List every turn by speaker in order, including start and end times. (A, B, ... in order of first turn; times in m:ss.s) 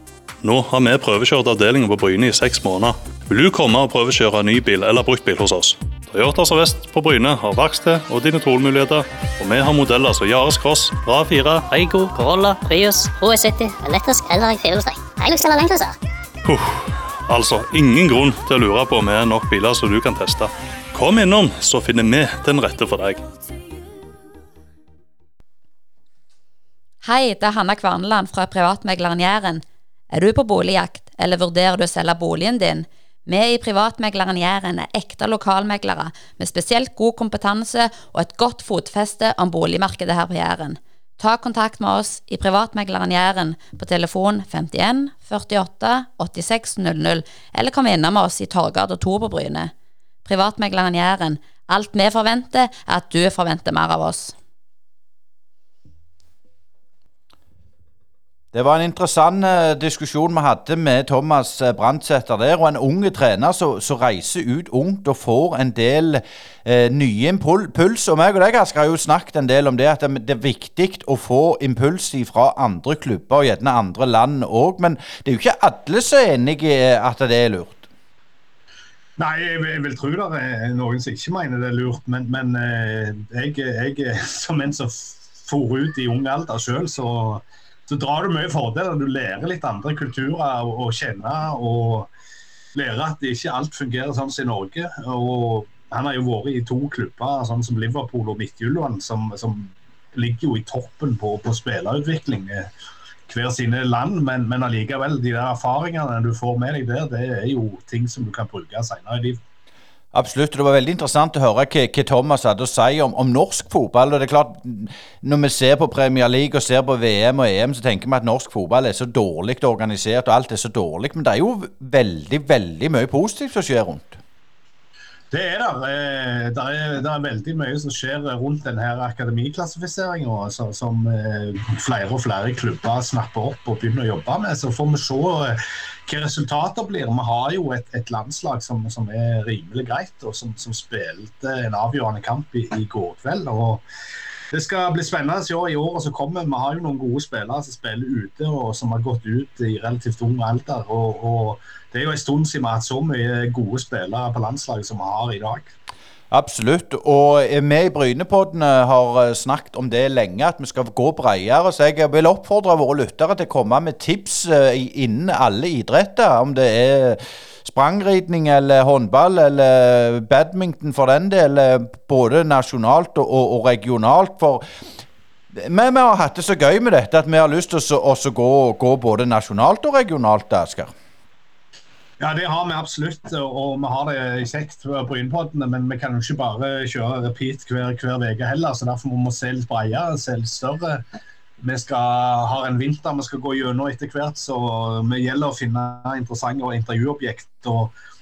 0:00.4-0:12.5 A
0:12.1-0:16.0 B
0:16.4-0:23.3 A
0:27.0-0:49.7 C
0:50.2-0:54.4 C
0:58.5-1:17.9 D
1:19.2-1:32.1 E
1:32.8-1:42.7 E
1:43.3-1:49.4 E
1:50.1-2:04.2 D
2:05.3-2:23.8 E
2:24.5-2:35.7 E
2:36.3-2:54.6 D
2:55.6-3:00.9 D
3:02.2-3:11.0 E
3:11.6-3:17.9 E